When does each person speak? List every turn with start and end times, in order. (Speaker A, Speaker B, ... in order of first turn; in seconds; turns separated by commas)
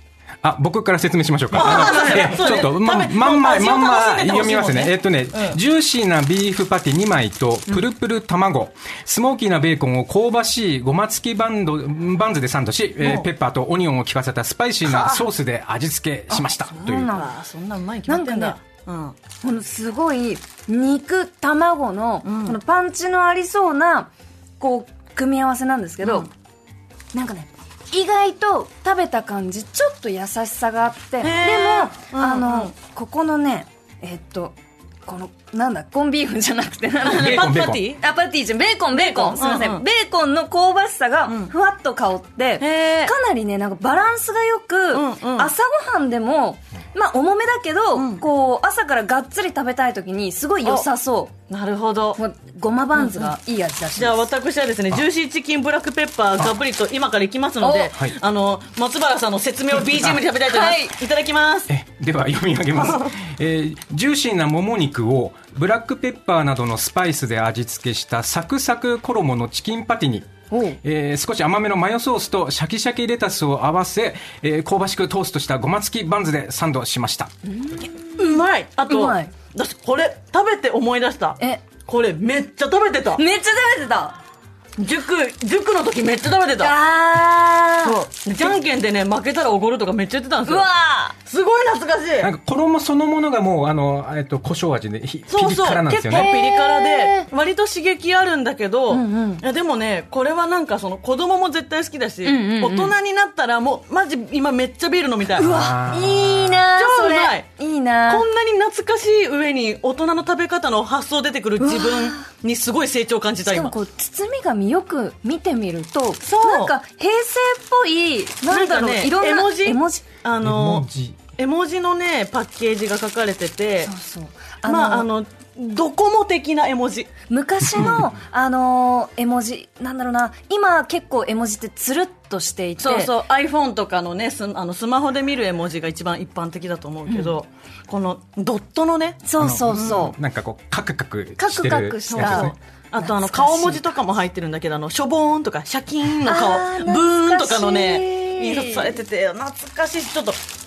Speaker A: 0.4-17.1, Speaker B: 1.5-5.6, Speaker C: 1.7-2.2, Speaker B: 13.0-13.3, Speaker B: 14.9-15.2, Speaker C: 16.3-17.3, Speaker B: 16.9-19.2, Speaker C: 18.1-18.6, Speaker C: 19.4-26.3, Speaker B: 22.2-22.6, Speaker B: 26.0-26.3, Speaker C: 27.1-51.3, Speaker B: 31.2-32.7, Speaker B: 37.0-38.0, Speaker A: 37.1-37.9, Speaker B: 38.9-39.8, Speaker B: 42.6-43.1, Speaker B: 44.9-45.5, Speaker B: 48.0-48.2, Speaker B: 51.5-52.2, Speaker C: 52.2-54.3, Speaker B: 52.9-53.3, Speaker B: 54.0-61.7, Speaker C: 57.6-57.9, Speaker C: 60.4-61.0, Speaker A: 61.7-77.3, Speaker B: 62.8-63.1, Speaker C: 70.5-70.8, Speaker C: 77.4-79.3, Speaker B: 78.2-83.2, Speaker C: 83.2-84.2, Speaker B: 84.8-86.8, Speaker C: 86.6-88.6, Speaker B: 87.8-90.7, Speaker C: 90.5-91.2, Speaker B: 91.3-92.3, Speaker A: 92.2-96.3, Speaker B: 95.3-105.7, Speaker C: 96.1-97.3, Speaker C: 98.9-99.4, Speaker C: 102.2-102.9, Speaker C: 105.3-108.2, Speaker A: 105.4-106.7, Speaker B: 106.7-107.5, Speaker B: 108.1-113.8, Speaker C: 111.6-112.2, Speaker C: 113.5-120.0, Speaker B: 116.3-116.7, Speaker B: 118.5-120.9, Speaker A: 120.4-121.2, Speaker B: 121.4-123.9, Speaker C: 123.8-125.1, Speaker B: 124.7-127.1, Speaker C: 127.3-133.1, Speaker A: 127.7-128.1, Speaker B: 132.8-140.0, Speaker C: 139.2-140.2, Speaker A: 139.4-142.6, Speaker C: 141.4-143.9, Speaker B: 142.1-150.4, Speaker C: 146.3-149.0